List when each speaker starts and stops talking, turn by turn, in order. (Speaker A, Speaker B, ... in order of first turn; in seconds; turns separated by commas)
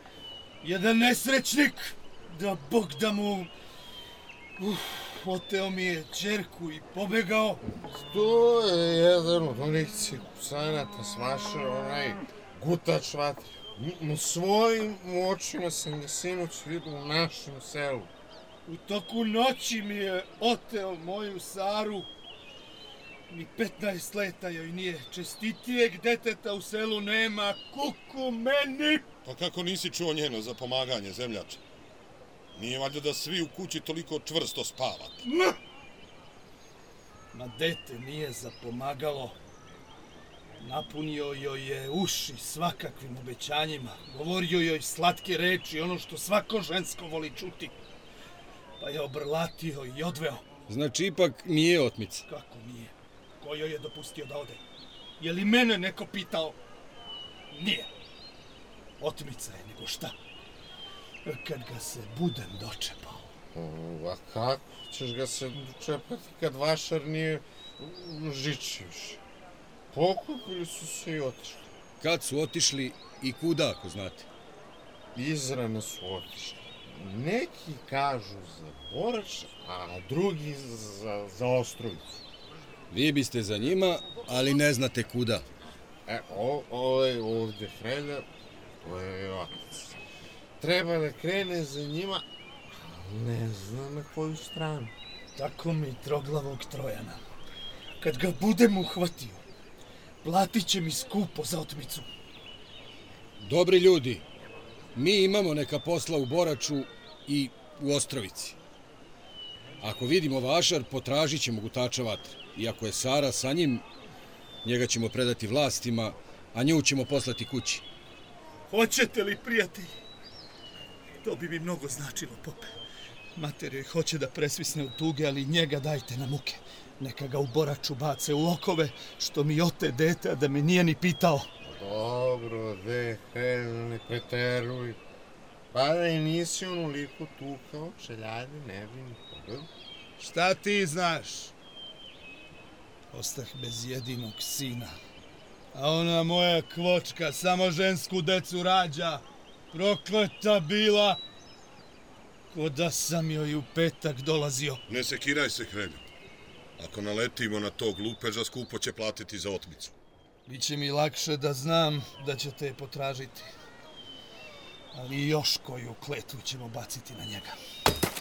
Speaker A: 0.6-3.5, Speaker A: 4.6-7.6, Speaker B: 8.0-18.1, Speaker A: 18.7-22.1, Speaker A: 23.3-29.0, Speaker C: 29.2-31.6, Speaker C: 32.5-35.2, Speaker A: 37.3-39.4, Speaker A: 40.6-47.7, Speaker A: 48.8-50.4, Speaker D: 50.7-52.2, Speaker A: 52.3-54.6, Speaker A: 55.2-56.5, Speaker A: 57.5-57.9, Speaker A: 59.0-60.1, Speaker A: 61.2-63.3, Speaker B: 63.5-69.2, Speaker B: 69.9-71.7, Speaker D: 72.0-74.3, Speaker B: 75.1-82.2, Speaker D: 82.9-85.4, Speaker B: 86.0-88.3, Speaker B: 88.8-89.9, Speaker B: 90.6-92.2, Speaker B: 92.8-94.9, Speaker A: 95.3-97.2, Speaker A: 98.0-99.4, Speaker A: 100.2-102.1, Speaker D: 103.4-104.2, Speaker D: 104.9-108.5, Speaker D: 109.8-113.8, Speaker D: 114.6-117.8, Speaker A: 118.7-119.9, Speaker A: 121.2-122.7, Speaker A: 123.3-131.5, Speaker B: 131.7-135.0, Speaker B: 135.7-139.7, Speaker A: 140.2-141.5, Speaker A: 143.1-144.9, Speaker A: 145.7-151.2, Speaker A: 152.5-154.8, Speaker C: 154.9-156.0, Speaker C: 156.8-159.9, Speaker A: 160.5-163.5, Speaker A: 164.9-167.6